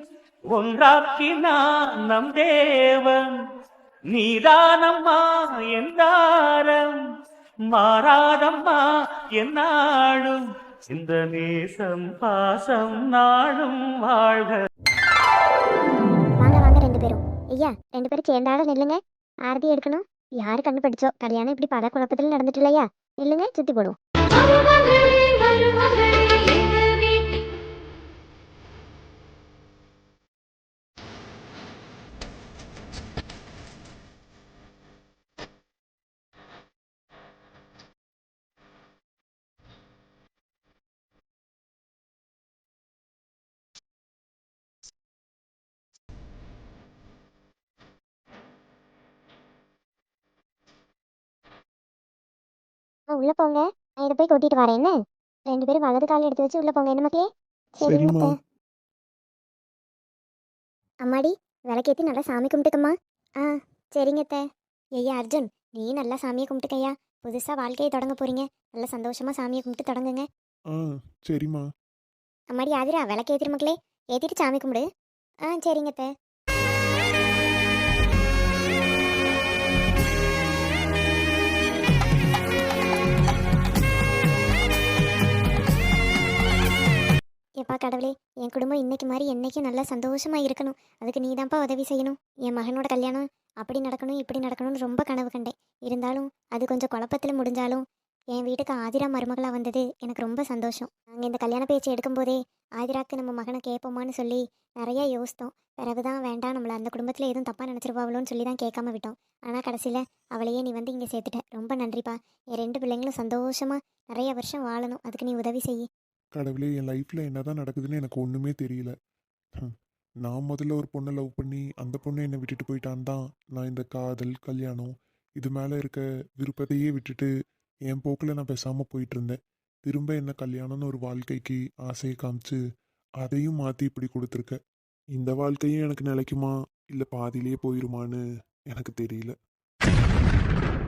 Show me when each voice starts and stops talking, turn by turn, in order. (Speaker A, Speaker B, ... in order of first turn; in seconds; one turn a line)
Speaker A: 0.5-3.4
Speaker A: 4.1-7.0
Speaker A: 7.7-8.9
Speaker A: 9.4-14.6
Speaker B: 16.4-24.0
Speaker B: 53.1-55.0
Speaker B: 55.5-58.3
Speaker C: 57.8-58.3
Speaker B: 61.0-64.4
Speaker B: 65.0-70.3
Speaker C: 70.7-71.7
Speaker B: 72.5-74.8
Speaker B: 75.5-76.1
Speaker B: 87.6-97.8
Speaker B: 98.3-115.9
Speaker C: 116.3-119.0
Speaker C: 120.2-127.3
Speaker C: 127.9-132.6
Speaker C: 133.2-134.6
Speaker C: 135.2-139.3